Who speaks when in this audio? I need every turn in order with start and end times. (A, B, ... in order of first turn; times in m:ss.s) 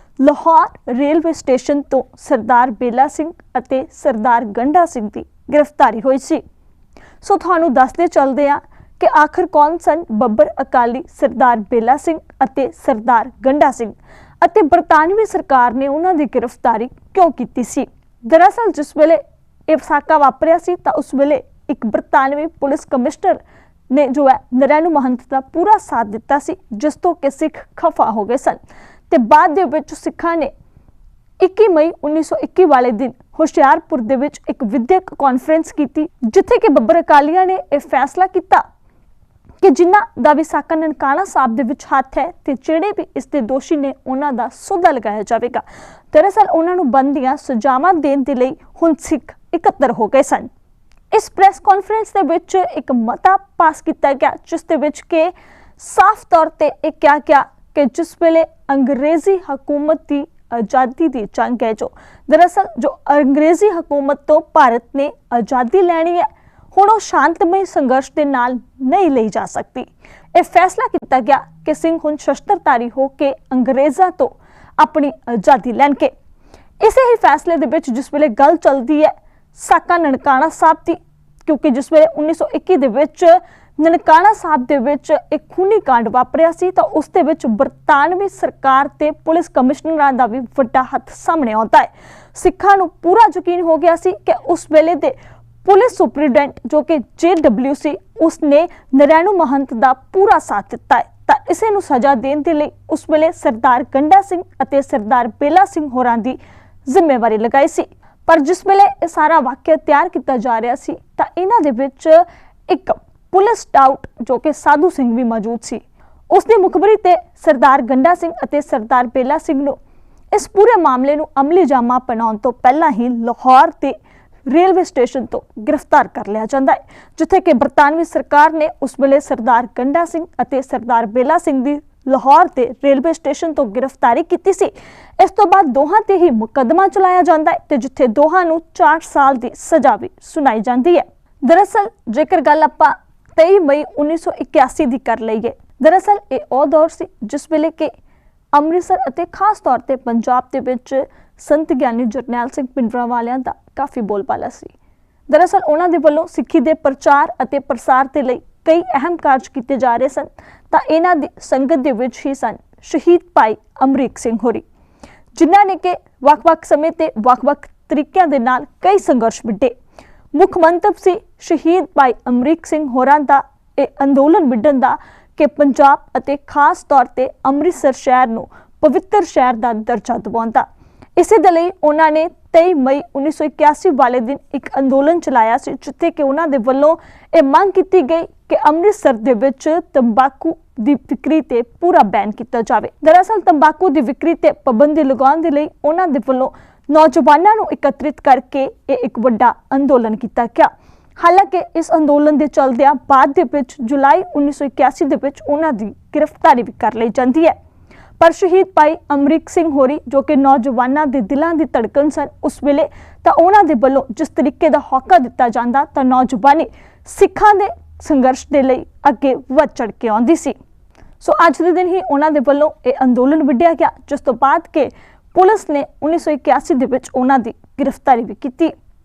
0:00.2-0:06.4 A
0:07.2-0:30.5 A
0:31.4-0:38.6 A
0:39.6-0:50.5 A
0:51.1-1:16.1 A
1:16.8-1:59.8 A
2:00.3-2:04.0 A
2:04.5-2:27.9 A
2:28.5-2:34.7 A
2:35.3-2:44.6 A
2:45.4-2:49.7 A
2:50.3-3:00.6 A
3:01.2-3:27.6 A
3:28.2-3:40.6 A
3:41.2-3:48.7 A